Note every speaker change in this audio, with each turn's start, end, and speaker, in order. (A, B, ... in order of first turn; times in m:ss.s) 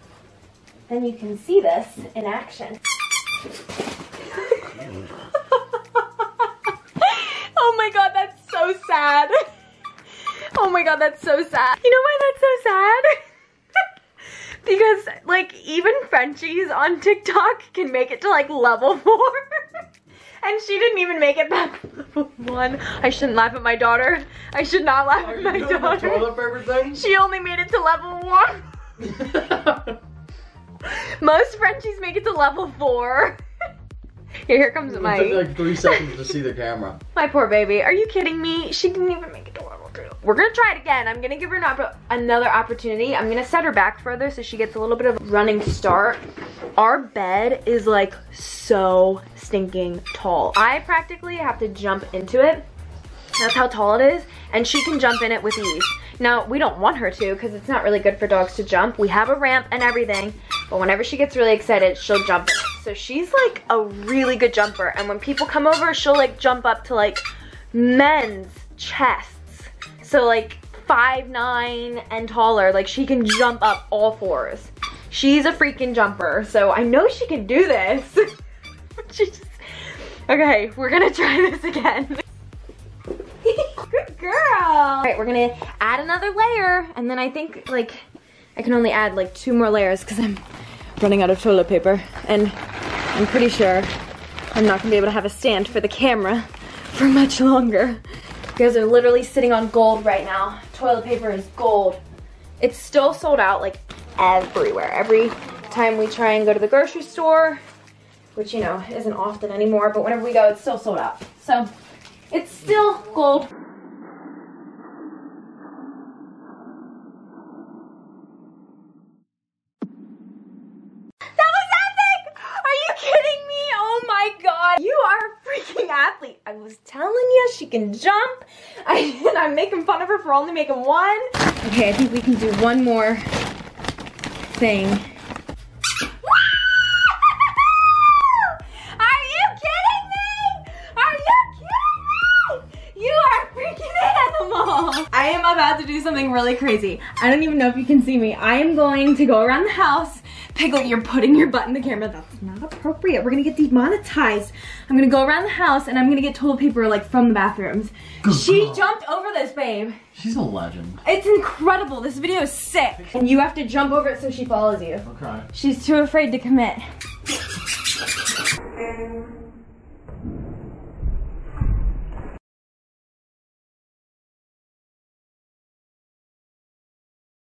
0:00.9-0:02.8 A
0:04.3-0:04.8 A
0:05.5-0:06.5 A
0:07.0-0:09.4 A
0:10.2-0:13.2 A
0:14.6-0:19.6 A
0:20.4-0:28.7 A
0:25.2-0:27.0 B
0:29.0-0:30.0 B
0:30.8-0:33.4 A
0:34.5-0:36.2 A
0:34.9-0:37.0 B
0:37.1-0:46.2 A
0:46.8-0:52.6 A
0:53.4-1:18.3 A
1:19.0-1:22.2 A
1:23.4-1:28.0 A
1:28.6-1:30.4 A
1:31.0-1:32.6 A
1:33.1-1:33.9 A
1:34.5-1:38.0 A
1:38.6-1:42.0 A
1:42.6-1:47.6 A
1:48.4-1:51.7 A
1:52.3-1:53.5 A
2:01.4-2:13.3 A
2:14.5-2:15.0 A
2:16.4-2:40.0 A
2:38.2-2:38.8 B
2:40.2-2:41.0 B
2:41.0-2:46.8 A
2:45.1-2:45.5 B